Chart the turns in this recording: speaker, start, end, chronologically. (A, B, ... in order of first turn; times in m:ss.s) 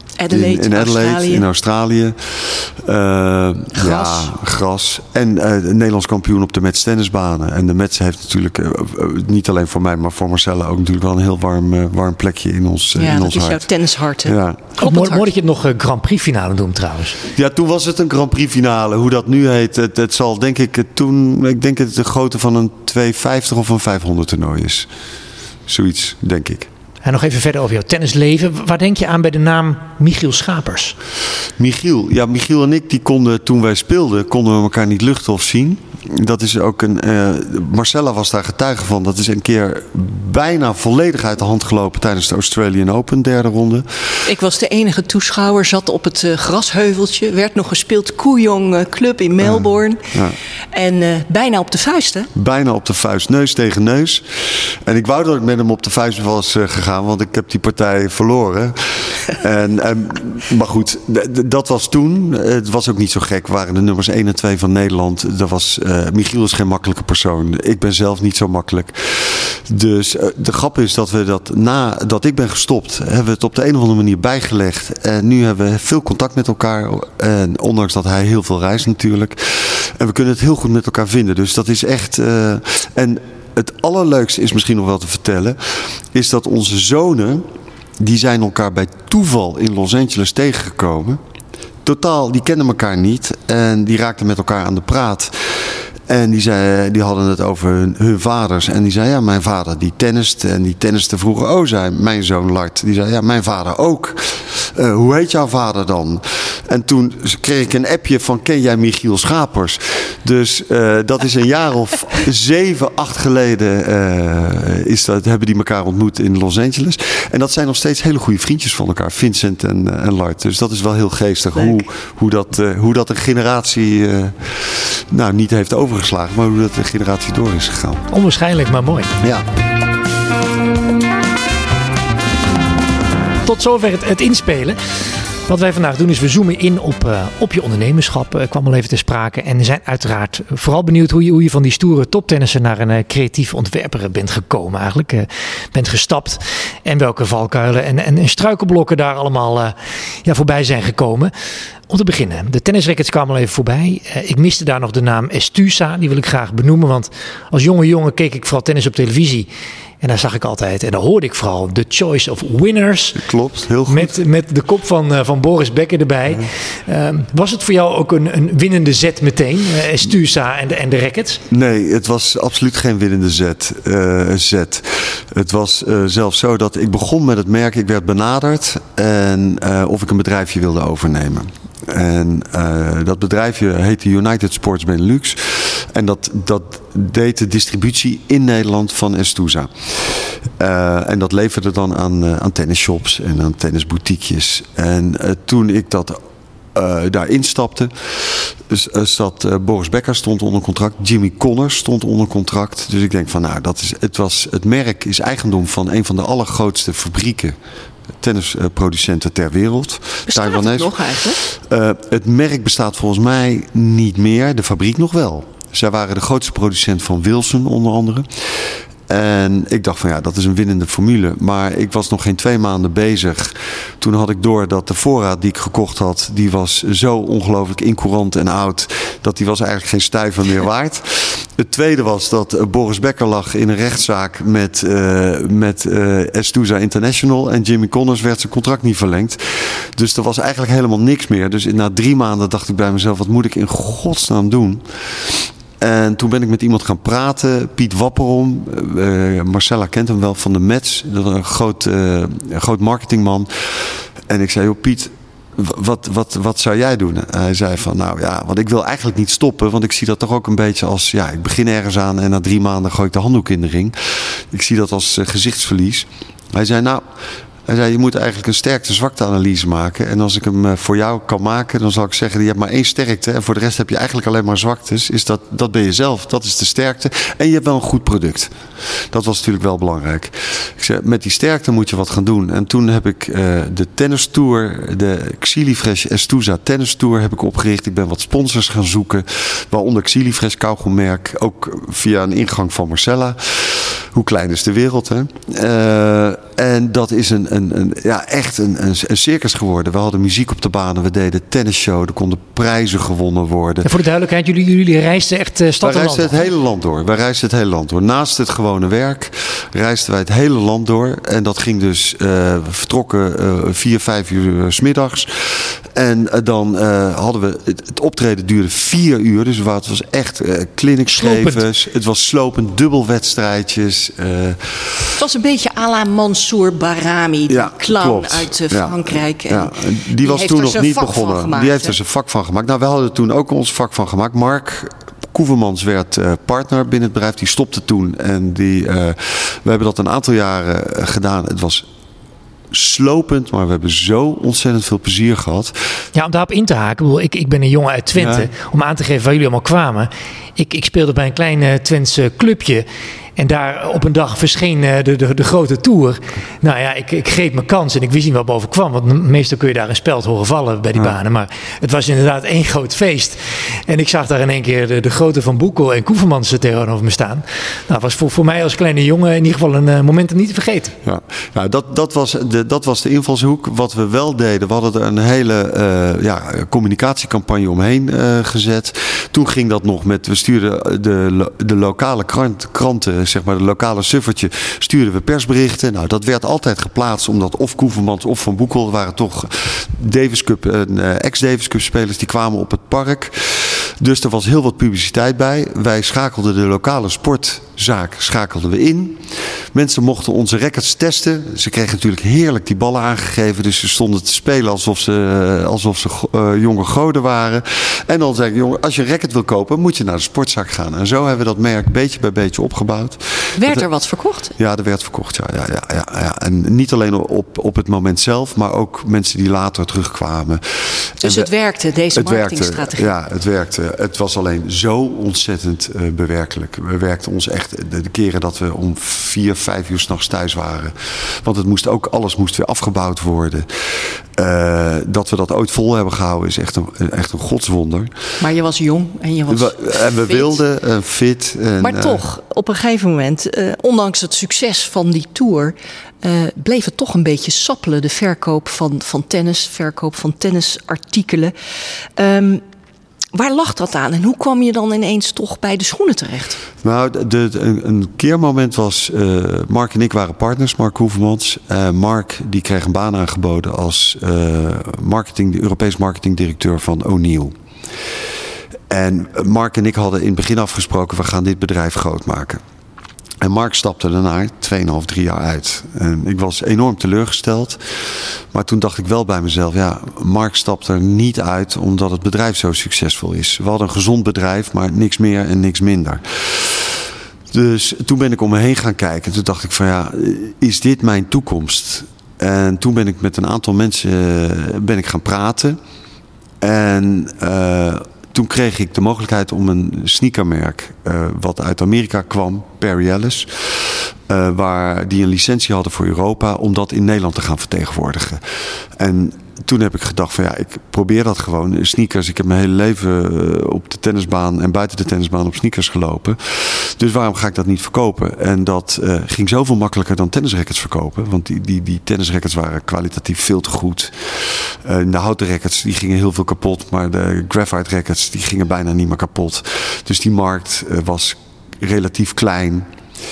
0:00.2-0:01.4 A
0:00.3-0:13.6 B
0:03.8-0:04.3 A
0:12.9-0:15.3 A
0:14.2-0:14.6 B
0:14.8-0:17.2 C
0:17.3-0:24.9 B
0:25.7-0:26.7 B
0:27.0-0:31.0 C
0:31.6-0:43.8 B
0:44.2-0:50.2 A
0:49.4-0:50.4 B
0:50.7-0:52.3 A
0:52.3-1:27.4 B
1:28.0-1:31.2 B
1:31.8-2:08.0 B
2:08.1-2:09.1 C
2:09.2-2:09.4 B
2:13.4-2:14.8 C
2:15.5-2:31.3 C
2:31.9-2:39.5 C
2:40.0-2:43.2 C
2:43.1-2:44.2 B
2:43.9-2:51.4 C
2:51.5-3:16.2 B
3:16.7-3:27.6 B
3:28.2-3:38.3 B
3:30.3-3:31.4 A
3:39.1-4:27.0 B
4:27.6-4:38.5 B
4:39.1-5:03.9 B
5:03.8-5:06.4 C
5:05.8-5:25.2 B
5:21.1-5:21.6 C
5:25.2-5:32.0 A
5:27.5-5:41.8 B
5:42.7-5:45.7 B
5:46.1-5:52.8 C
5:48.1-5:48.5 B
5:53.4-6:11.0 C
6:11.0-6:53.8 B
6:53.6-6:54.5 A
6:54.6-7:01.5 B
7:01.2-7:03.1 A
7:02.1-7:18.1 B
7:18.4-7:20.6 A
7:19.5-7:22.2 B
7:21.8-7:31.5 A
7:32.2-7:32.6 A
7:33.3-7:36.6 A
7:36.8-7:47.5 B
7:48.9-7:52.6 B
7:53.4-8:15.8 B
8:16.6-8:28.4 B
8:29.0-8:52.8 B